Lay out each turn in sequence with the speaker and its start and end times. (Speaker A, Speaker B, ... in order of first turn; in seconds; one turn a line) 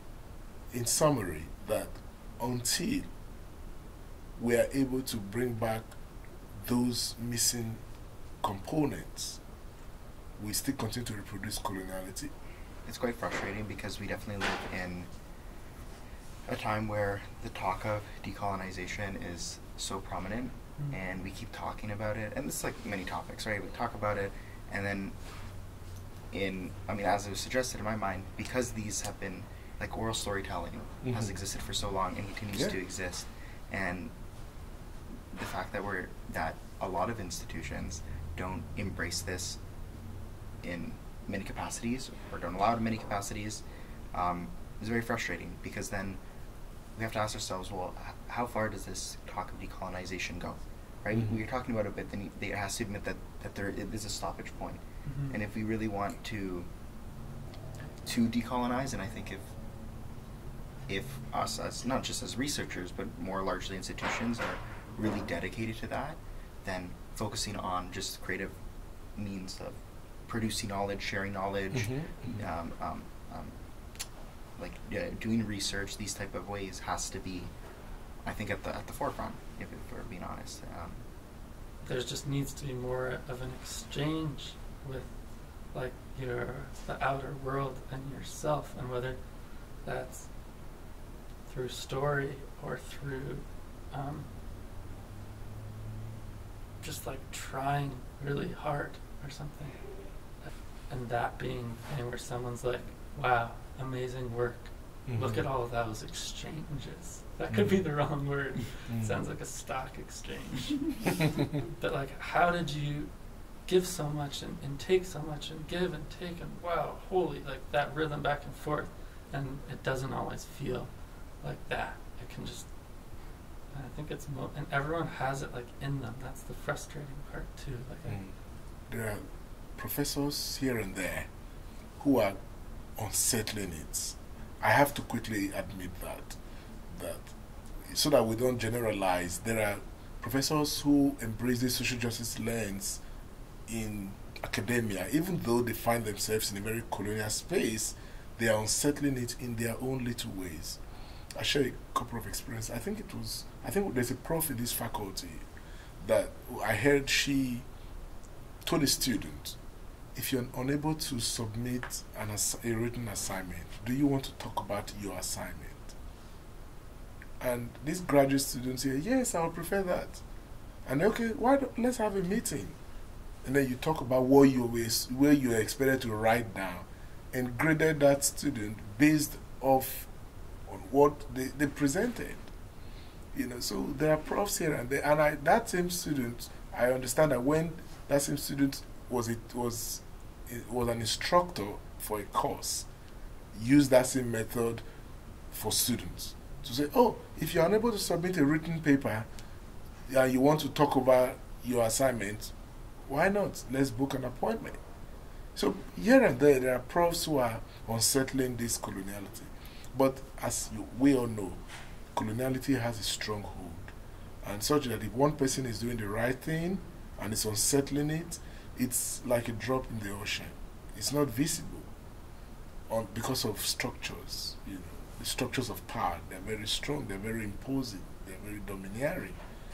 Speaker A: 0.7-3.1
Speaker A: 4.4-5.9
Speaker A: 6.5-7.8
Speaker A: 8.4-9.4
Speaker A: 10.4-12.3
Speaker B: 12.9-15.1
Speaker B: 16.4-25.1
Speaker B: 26.3-34.1
Speaker A: 32.5-32.8
Speaker B: 35.3-39.6
Speaker B: 40.6-43.6
Speaker B: 44.1-46.2
Speaker B: 46.9-56.7
Speaker C: 55.0-55.4
Speaker B: 58.0-59.5
Speaker B: 60.9-68.5
Speaker B: 69.1-73.5
Speaker A: 71.7-72.3
Speaker B: 74.6-77.5
Speaker B: 78.2-81.0
Speaker C: 81.8-85.1
Speaker C: 85.7-89.2
Speaker C: 89.8-90.3
Speaker C: 91.5-94.3
Speaker C: 96.8-99.8
Speaker C: 100.4-113.1
Speaker A: 105.1-105.4
Speaker C: 113.6-120.9
Speaker C: 121.4-122.7
Speaker C: 123.7-128.2
Speaker A: 128.9-131.3
Speaker A: 132.0-132.4
Speaker A: 133.0-137.3
Speaker A: 137.9-143.0
Speaker A: 143.7-150.8
Speaker A: 151.4-155.4
Speaker A: 156.0-157.7
Speaker A: 158.6-159.6
Speaker A: 160.1-165.9
Speaker A: 167.4-170.2
Speaker A: 170.9-172.8
Speaker A: 173.4-180.1
Speaker A: 180.7-182.4
Speaker A: 183.3-192.9
Speaker A: 193.5-194.8
Speaker A: 195.5-199.3
Speaker A: 200.1-202.5
Speaker A: 203.1-204.8
Speaker A: 205.5-211.6
Speaker A: 212.1-221.9
Speaker A: 222.9-229.4